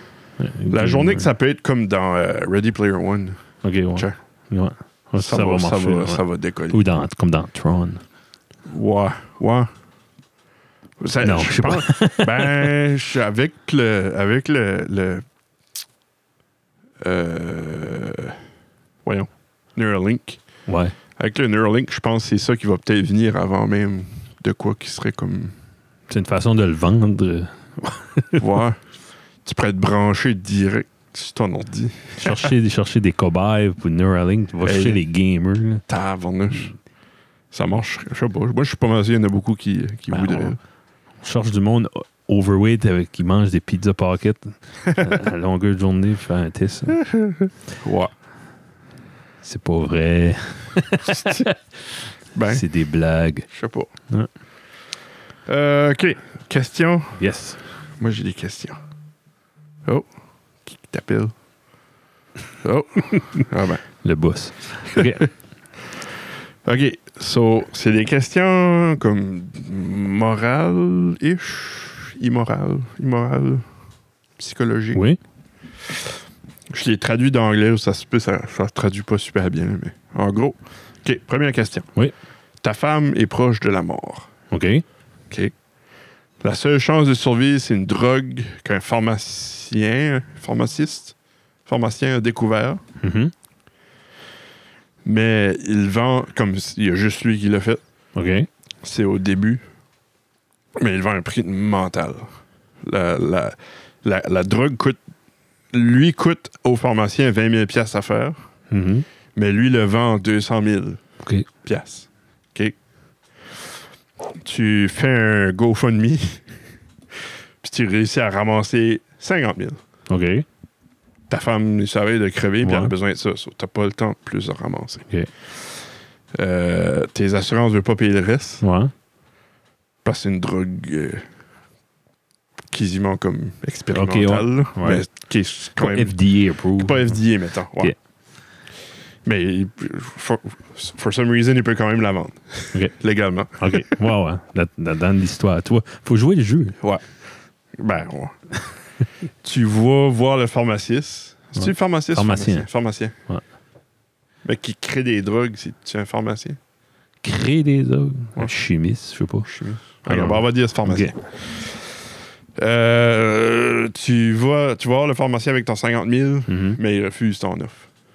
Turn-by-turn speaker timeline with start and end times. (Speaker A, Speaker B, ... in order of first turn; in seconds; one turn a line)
Speaker A: 0.4-1.3
Speaker B: 0.7-3.4
Speaker A: 3.6-8.0
Speaker B: 5.2-6.8
Speaker B: 8.7-9.7
Speaker B: 11.0-15.2
Speaker A: 11.2-12.7
Speaker B: 17.0-18.4
Speaker B: 19.0-20.4
Speaker A: 20.7-20.9
Speaker B: 21.2-25.5
Speaker A: 26.1-28.5
Speaker B: 28.4-28.8
Speaker B: 29.4-32.5
Speaker A: 32.2-35.8
Speaker B: 34.6-35.0
Speaker B: 35.9-36.7
Speaker B: 37.5-40.6
Speaker A: 40.1-40.5
Speaker A: 41.2-47.0
Speaker B: 44.9-45.2
Speaker B: 47.0-48.1
Speaker A: 49.4-51.9
Speaker B: 51.0-51.5
Speaker B: 52.3-52.6
Speaker A: 52.5-53.5
Speaker B: 53.5-53.9
Speaker B: 55.5-57.2
Speaker A: 57.2-57.6
Speaker B: 58.0-58.8
Speaker B: 60.6-61.3
Speaker B: 62.6-63.8
Speaker A: 64.0-65.3
Speaker B: 66.6-73.6
Speaker B: 74.4-75.0
Speaker A: 74.9-75.2
Speaker B: 76.7-81.9
Speaker B: 82.6-84.3
Speaker A: 84.5-84.8
Speaker B: 86.4-91.1
Speaker B: 91.7-92.8
Speaker A: 93.0-93.3
Speaker B: 95.0-97.8
Speaker A: 98.2-98.5
Speaker B: 98.8-99.6
Speaker B: 100.8-102.2
Speaker B: 102.8-105.0
Speaker B: 105.7-108.4
Speaker A: 108.7-109.0
Speaker B: 109.3-111.0
Speaker B: 111.6-112.8
Speaker B: 114.4-116.4
Speaker B: 117.6-119.8
Speaker A: 120.1-120.4
Speaker B: 121.3-125.0
Speaker A: 122.6-122.9
Speaker B: 126.4-128.6
Speaker A: 128.6-128.9
Speaker B: 130.0-131.2
Speaker B: 132.7-136.2
Speaker A: 133.9-135.0
Speaker A: 135.8-137.2
Speaker B: 136.7-137.9
Speaker B: 139.2-144.0
Speaker A: 143.6-146.8
Speaker B: 147.8-148.3
Speaker B: 149.4-153.1
Speaker A: 151.6-152.7
Speaker B: 154.4-156.6
Speaker A: 157.2-159.5
Speaker B: 159.4-161.9
Speaker A: 160.1-161.1
Speaker B: 162.6-167.9
Speaker A: 166.5-166.8